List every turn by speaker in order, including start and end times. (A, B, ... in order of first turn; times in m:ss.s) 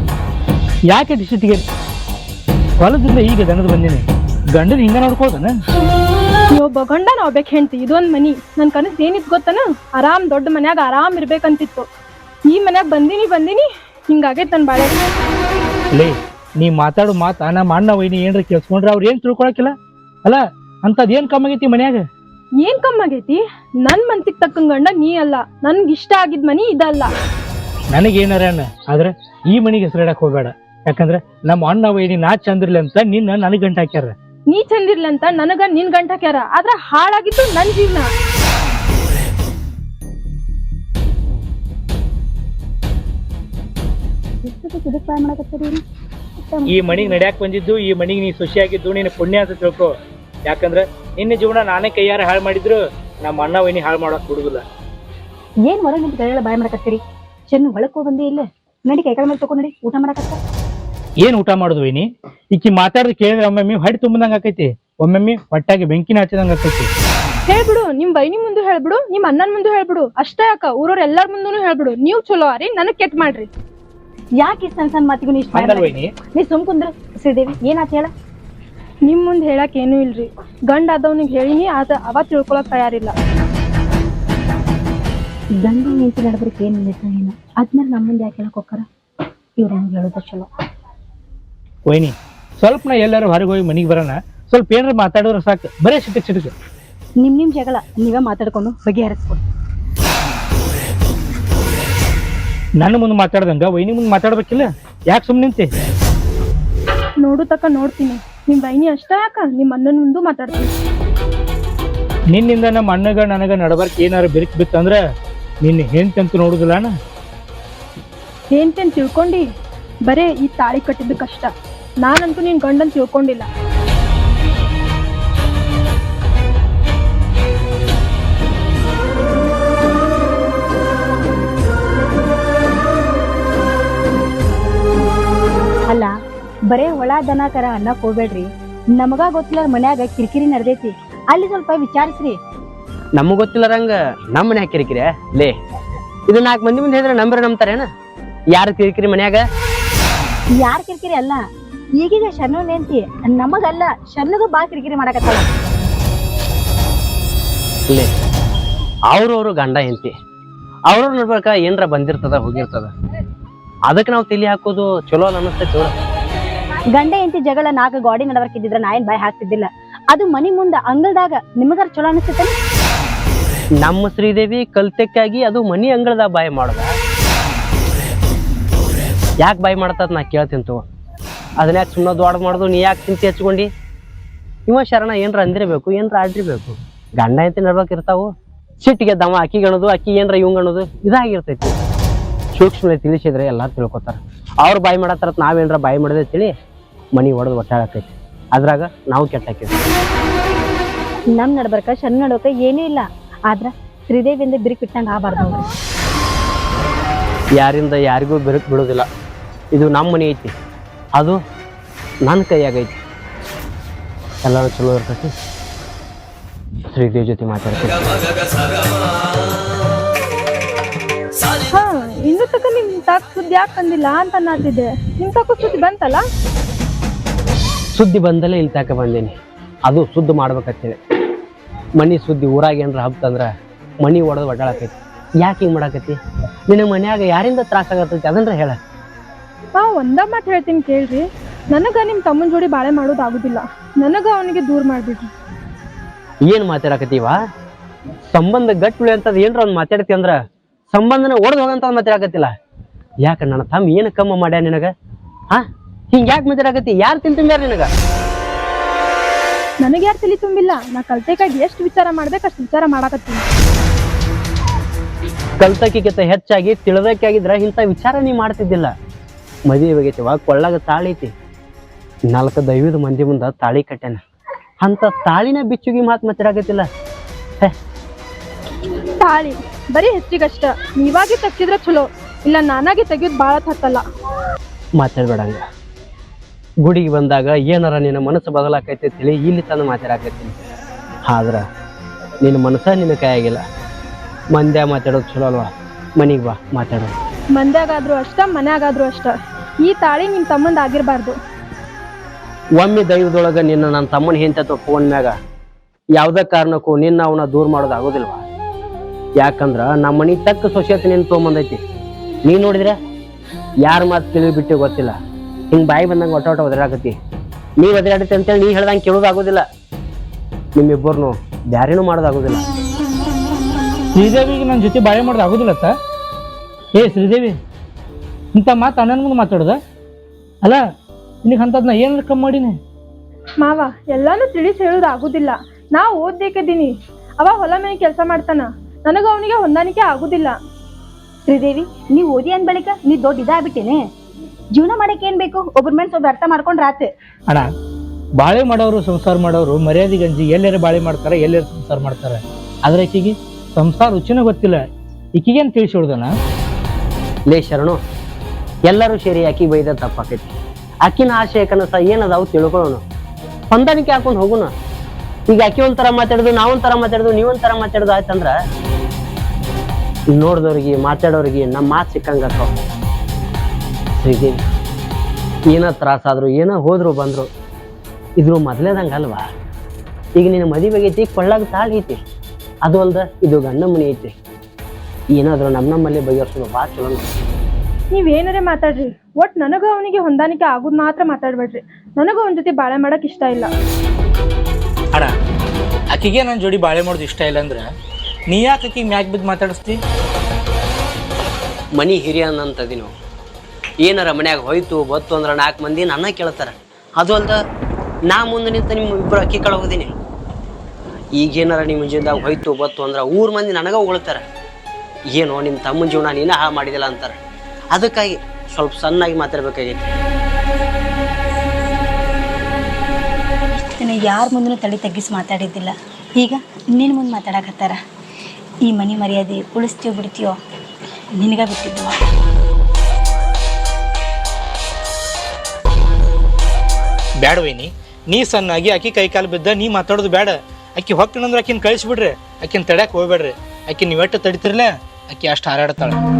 0:00.9-0:01.6 A
0:02.8-0:05.5 A
0:06.5-0:11.9 B
0:12.5-0:15.0 B
0:15.9-0:22.0 A
0:22.6-0:27.1 B
0:27.9-0:34.1 A
0:34.5-0:38.1 B
0:44.4-0:45.8 C
0:46.4-0:47.2 C
0:46.7-0:49.9 A
0:50.5-0:54.6 A
0:55.6-0:57.0 C
0:57.5-1:00.4 C
1:01.2-1:06.9 A
1:07.5-1:13.5 B
1:14.4-1:18.1 C
1:15.5-1:16.1 A
1:19.0-1:23.1 B
1:25.6-1:28.8 C
1:29.6-1:30.5 C
1:31.9-1:36.5 A
1:37.2-1:39.4 C
1:42.8-1:45.7 A
1:47.2-1:50.7 B
1:52.3-1:55.0 A
1:55.6-1:56.9 A
1:58.5-1:59.5 B
2:00.1-2:01.5 B
2:02.0-2:03.5 B
2:15.9-2:16.2 C
2:16.7-2:22.4 C
2:23.2-2:25.6 D
2:26.3-2:27.9 D
2:28.5-2:29.4 D
2:30.6-2:31.4 C
2:32.0-2:35.5 C
2:39.1-2:40.1 D
2:40.9-2:42.9 D
2:43.9-2:45.9 D
2:46.9-2:52.5 C
2:53.8-2:57.0 D
2:59.4-3:00.8 D
3:01.6-3:03.7 D
3:04.7-3:11.8 D
3:12.5-3:16.6 D
3:17.1-3:19.8 D
3:21.3-3:25.6 C
3:27.6-3:29.1 D
3:29.7-3:30.5 D
3:31.2-3:31.4 D
3:32.2-3:33.0 D
3:34.4-3:35.3 D
3:36.9-3:38.1 D
3:41.7-3:46.2 B
3:47.9-3:49.3 D
3:49.8-3:51.0 D
3:52.0-3:58.8 D
3:59.7-4:05.3 B
4:06.4-4:07.4 D
4:08.3-4:12.5 D
4:13.2-4:14.9 D
4:15.5-4:17.9 D
4:19.8-4:23.4 B
4:25.6-4:28.9 D
4:29.7-4:31.3 D
4:32.3-4:34.2 D
4:34.8-4:36.9 D
4:39.2-4:44.0 B
4:45.0-4:45.6 D
4:46.8-4:50.5 D
4:51.2-4:51.7 D
4:52.4-4:53.6 D
4:54.5-4:57.1 D
4:57.5-5:01.4 B
5:02.8-5:05.4 D
5:06.1-5:08.4 D
5:09.4-5:11.8 D
5:12.4-5:13.0 D
5:13.8-5:15.2 D
5:15.7-5:17.2 D
5:17.8-5:19.7 D
5:20.8-5:22.6 D
5:24.1-5:25.9 A
5:26.9-5:27.6 A
5:28.5-5:29.8 A
5:31.4-5:32.8 A
5:33.6-5:40.6 B
5:41.5-5:44.0 C
5:44.7-5:47.1 C
5:48.4-5:54.8 A
5:55.4-5:56.3 A
5:57.5-5:58.0 D
5:58.9-6:00.5 D
6:01.0-6:03.0 D
6:03.7-6:04.7 D
6:05.5-6:08.5 D
6:10.3-6:12.8 D
6:14.2-6:14.6 D
6:15.7-6:17.5 D
6:18.4-6:19.5 D
6:20.4-6:22.2 D
6:22.8-6:24.3 D
6:25.3-6:27.3 D
6:28.1-6:33.7 B
6:36.1-6:37.8 A
6:38.5-6:40.0 A
6:42.0-6:43.1 D
6:44.0-6:47.6 D
6:48.3-6:50.1 D
6:51.3-6:54.4 D
6:55.3-6:57.4 D
6:57.9-7:00.1 D
7:03.8-7:08.0 C
7:08.8-7:10.6 C
7:11.3-7:12.3 C
7:17.4-7:26.2 A